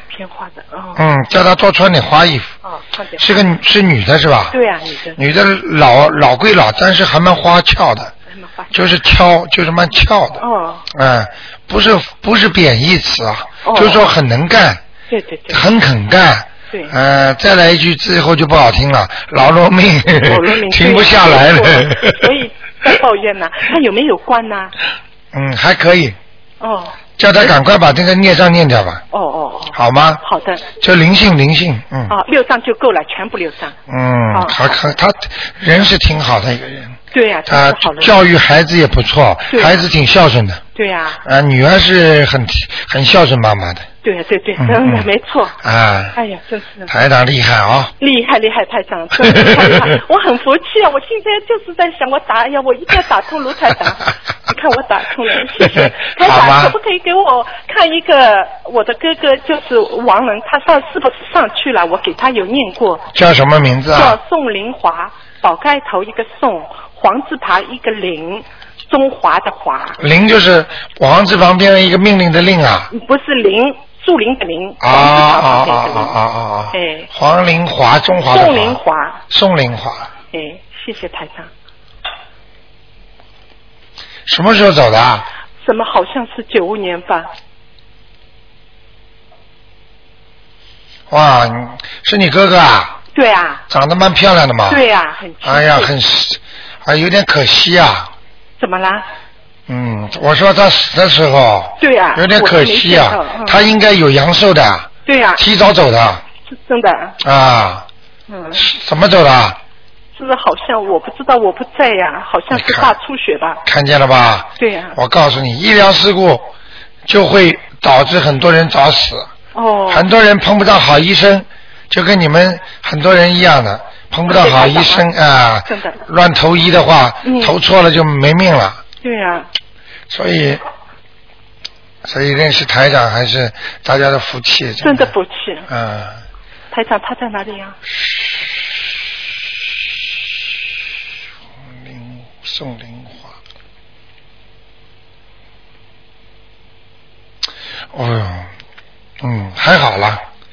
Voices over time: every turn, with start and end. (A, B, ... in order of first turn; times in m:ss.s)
0:00.1-0:01.0 A
0:01.0-0:02.5 B
0:02.6-0:03.2 A
0:03.2-0:04.6 B
0:04.5-0:05.2 A
0:05.2-0:08.1 B
0:08.3-0:08.8 A
0:08.7-0:14.8 B
0:10.4-0:10.8 A
0:13.6-0:14.0 A
0:15.1-0:15.6 A
0:15.5-0:22.3 B
0:20.1-0:24.8 A
0:25.3-0:26.2 B
0:26.6-0:27.0 A
0:27.2-0:29.0 B
0:29.1-0:30.7 A
0:29.7-0:30.2 B
0:30.8-0:32.2 B
0:32.1-0:33.8 A
0:33.9-0:40.6 B
0:34.3-0:34.7 A
0:37.1-0:38.2 A
0:39.5-0:39.8 A
0:40.8-0:41.2 A
0:41.2-0:43.9 B
0:44.0-0:45.6 A
0:44.6-0:46.2 B
0:46.2-0:46.9 A
0:46.9-0:47.9 B
0:48.0-1:03.1 A
0:49.2-0:49.9 B
0:55.6-0:56.8 B
1:03.1-1:04.2 B
1:03.9-1:10.0 A
1:10.0-1:12.9 B
1:12.9-1:16.2 A
1:14.8-1:20.1 B
1:16.7-1:17.1 A
1:18.3-1:19.2 A
1:20.3-1:21.5 A
1:24.3-1:25.3 B
1:25.6-1:27.3 A
1:31.1-1:33.0 B
1:33.2-1:33.6 A
1:33.7-1:34.8 B
1:34.7-1:35.9 A
1:35.4-1:38.1 B
1:38.6-1:39.1 A
1:39.7-1:46.2 B
1:41.8-1:43.6 A
1:45.1-1:45.4 A
1:46.5-1:47.2 A
1:47.2-1:47.9 B
1:48.3-1:48.6 A
1:48.6-1:49.6 B
1:50.1-1:53.6 A
1:52.5-1:53.0 B
1:53.6-1:56.5 B
1:54.6-1:55.0 A
1:57.1-1:59.3 B
1:59.5-2:00.1 A
1:59.9-2:08.8 B
2:04.3-2:05.1 A
2:05.7-2:06.0 A
2:07.2-2:07.6 A
2:09.0-2:09.5 A
2:10.1-2:10.6 B
2:12.0-2:15.1 B
2:14.8-2:15.7 A
2:15.7-2:16.2 B
2:16.7-2:17.8 A
2:21.6-2:23.4 B
2:27.9-2:28.5 B
2:29.2-2:30.2 B